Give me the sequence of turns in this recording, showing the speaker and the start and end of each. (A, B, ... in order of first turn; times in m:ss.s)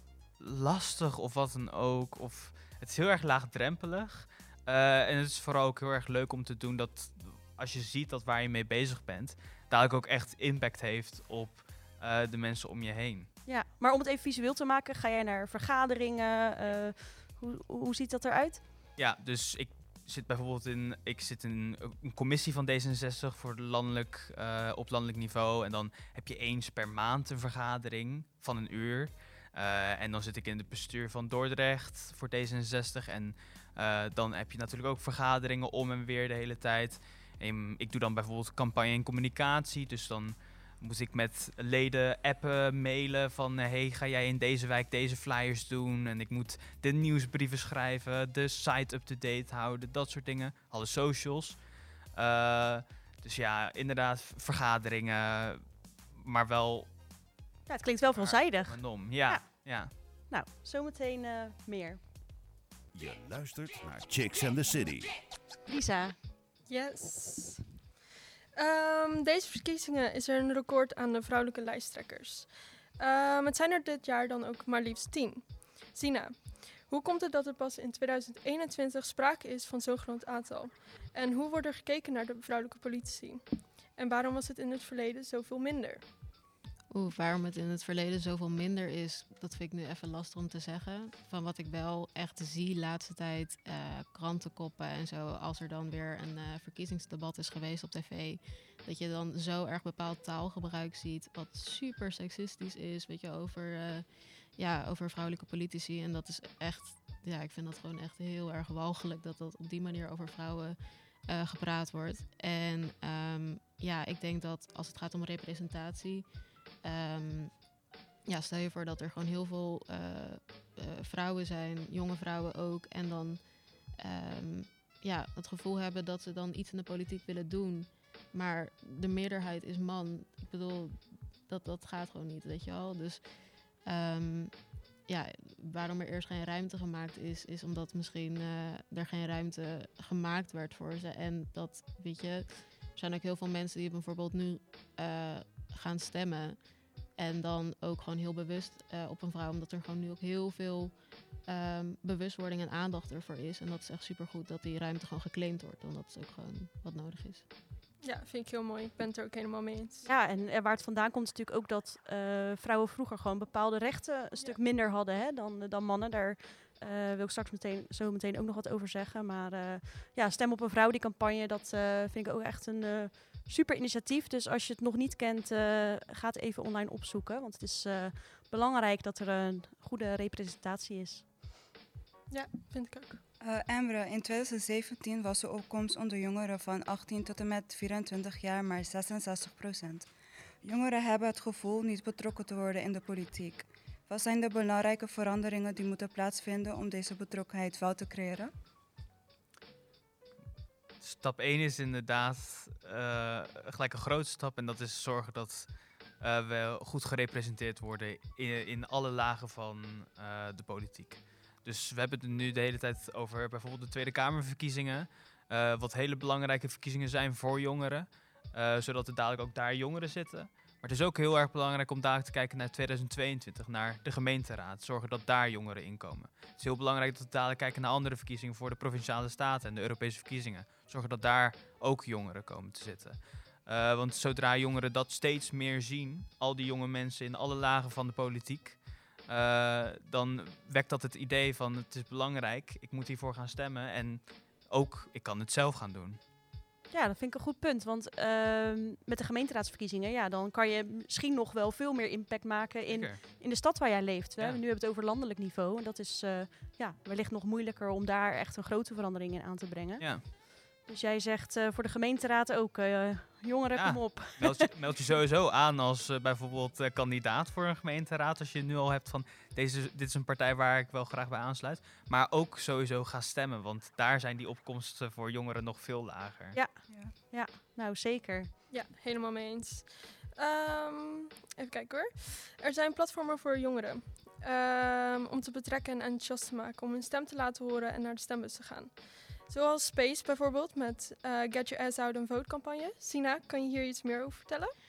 0:00.4-0:13.3 A
0:13.5-0:18.6 B
0:19.0-0:51.6 A
0:52.2-0:56.9 A
0:57.7-1:02.0 B
0:58.2-0:59.9 A
1:02.9-1:05.2 C
1:05.7-1:06.2 B
1:06.7-1:07.6 D
1:08.6-1:26.0 D
1:26.9-1:56.3 E
1:56.8-1:57.6 E
1:58.3-2:03.4 E
2:04.0-2:13.2 E
2:13.8-2:26.6 E
2:27.2-2:37.4 E
2:38.0-2:40.1 D
2:40.0-3:01.2 B
3:02.3-3:03.2 D
3:03.4-3:10.1 F
3:10.6-3:18.5 F
3:21.0-3:25.7 A
3:26.2-4:06.2 A
4:06.9-4:24.7 B
4:12.9-4:13.2 A
4:20.0-4:20.2 A
4:23.8-4:36.6 A
4:36.5-4:38.5 B
4:36.9-4:37.1 F
4:38.7-4:54.8 D